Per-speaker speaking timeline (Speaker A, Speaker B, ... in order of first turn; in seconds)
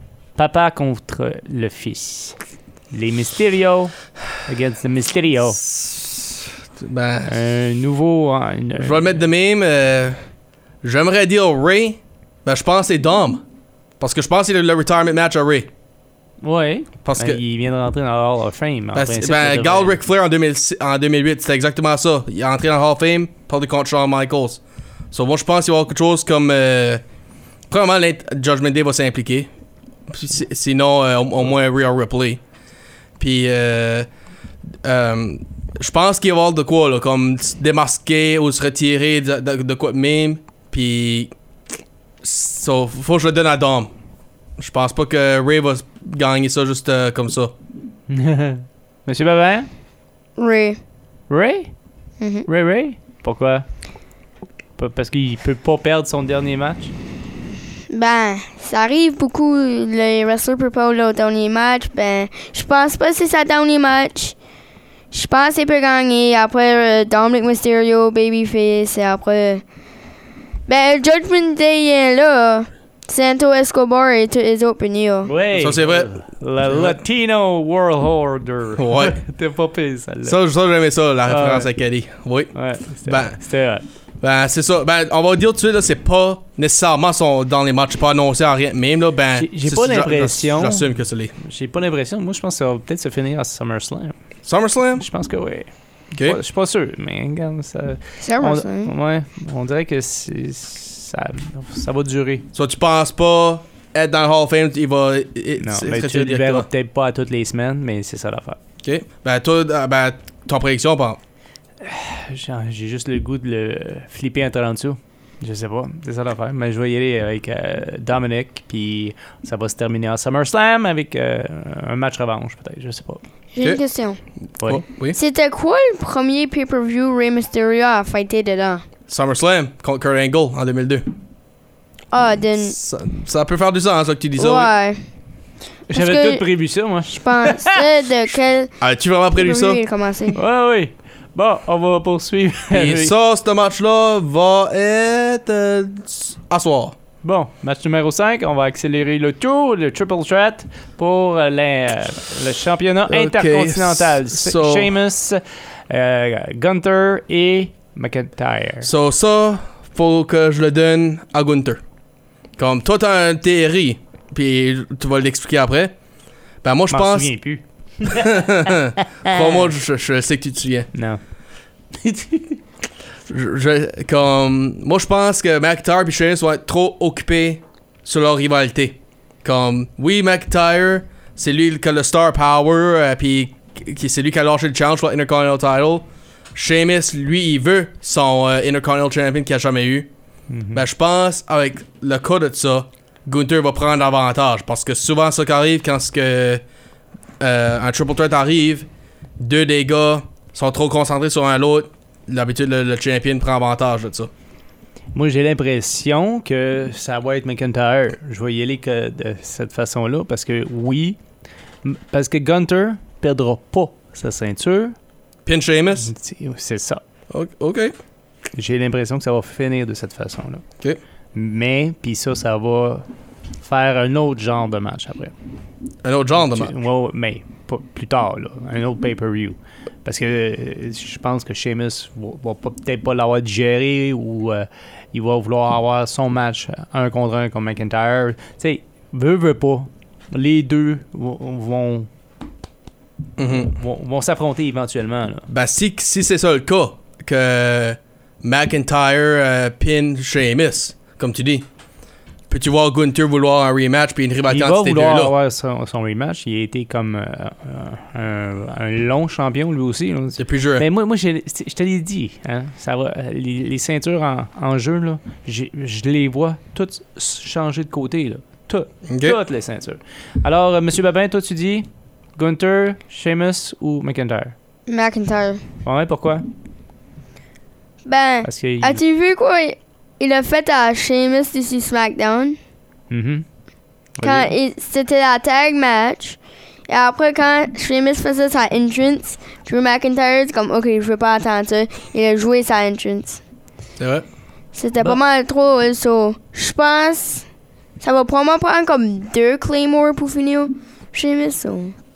Speaker A: 0.4-2.4, 2.9-4.0, 4.5-5.6, 7.3-9.1, 16.4-20.0, 48.1-49.7, 51.3-51.7, 52.5-53.7, 54.8-56.9, 75.2-80.4, 81.3-81.7, 82.5-83.8, 89.3-94.2, 95.0-95.7, 96.2-102.5, 105.6-108.6, 111.8-123.2, 135.9-137.9, 140.3-143.1, 147.2-158.9, 166.9-169.6, 170.9-171.2, 172.0-172.6, 190.5-190.8, 205.2-211.2, 211.8-214.9, 216.0-217.0, 218.5-220.6, 221.3-223.1, 223.6-225.3, 226.4-242.1, 243.5-245.5, 254.5-274.6, 275.9-276.5, 278.4-279.0, 283.1-283.5, 284.2-284.5
Speaker B: 5.6-7.3, 8.8-10.2, 10.8-13.4, 14.0-15.7, 17.1-17.4, 18.9-27.0, 27.7-29.5, 30.1-32.4, 33.2-34.1, 34.8-41.3, 42.2-43.9, 44.6-47.5, 75.6-76.1, 76.7-77.0, 78.8-79.2, 80.2-82.5, 83.1-83.4, 84.2-91.3, 94.5-95.1, 96.1-96.4, 102.5-106.7, 108.8-111.2, 124.7-125.2, 129.1-131.1, 132.7-134.7, 138.8-139.8, 142.7-147.0, 153.1-154.9, 158.8-161.8, 162.6-165.9, 166.6-167.3, 168.0-170.9, 173.3-190.1, 190.7-196.6, 197.4-198.9, 199.4-204.3, 215.5-216.1, 217.3-217.9, 226.0-226.7, 243.4-243.7, 245.5-251.7, 252.5-255.3, 260.4-260.9, 269.1-269.4, 294.0-294.3
Speaker C: 50.4-50.8, 52.2-52.5, 57.9-64.4, 65.1-69.6, 70.7-75.3, 98.2-98.9, 123.5-124.2, 125.1-128.8, 132.1-132.8, 134.4-135.0, 135.9-136.4, 137.1-138.7, 139.4-140.4, 274.9-275.6, 278.1-282.6, 284.2-293.4, 294.8-297.5, 298.0-302.0